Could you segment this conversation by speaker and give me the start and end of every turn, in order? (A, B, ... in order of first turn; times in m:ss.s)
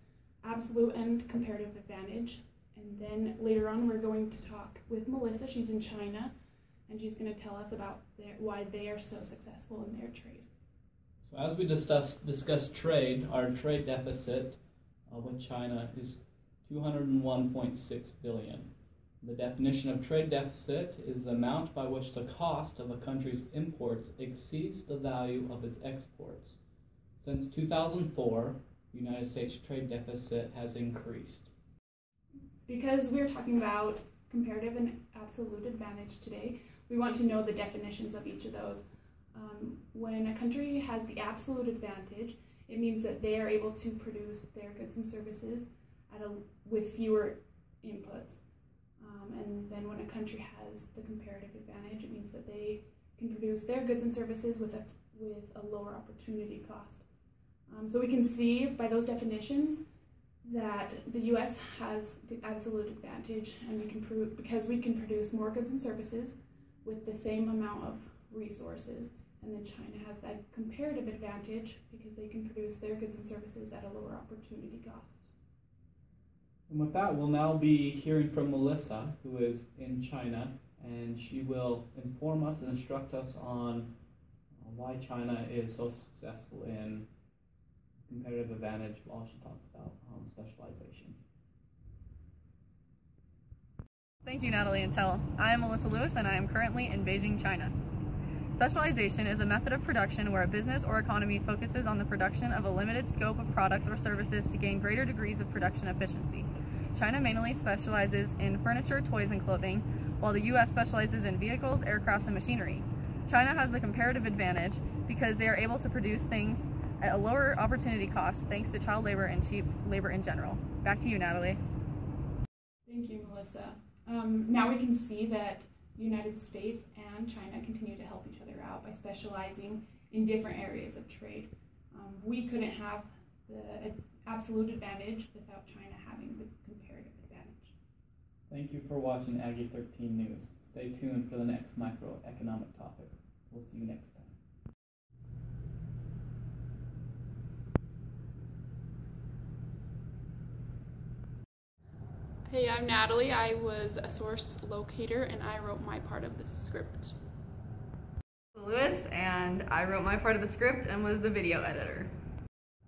0:00.4-0:06.3 A
0:06.9-0:10.5 A
0:11.2-0:26.6 B
0:27.2-0:31.5 B
0:32.6-0:48.4 A
0:49.0-0:57.0 A
0:57.7-0:59.8 A
1:00.4-1:15.3 A
1:16.7-1:23.9 B
1:24.5-1:27.1 B
1:28.0-1:31.2 B
1:34.2-1:37.7 C
1:38.6-2:01.6 C
2:02.8-2:17.7 A
2:18.5-2:24.4 B
2:32.4-2:37.2 A
2:38.5-2:42.1 C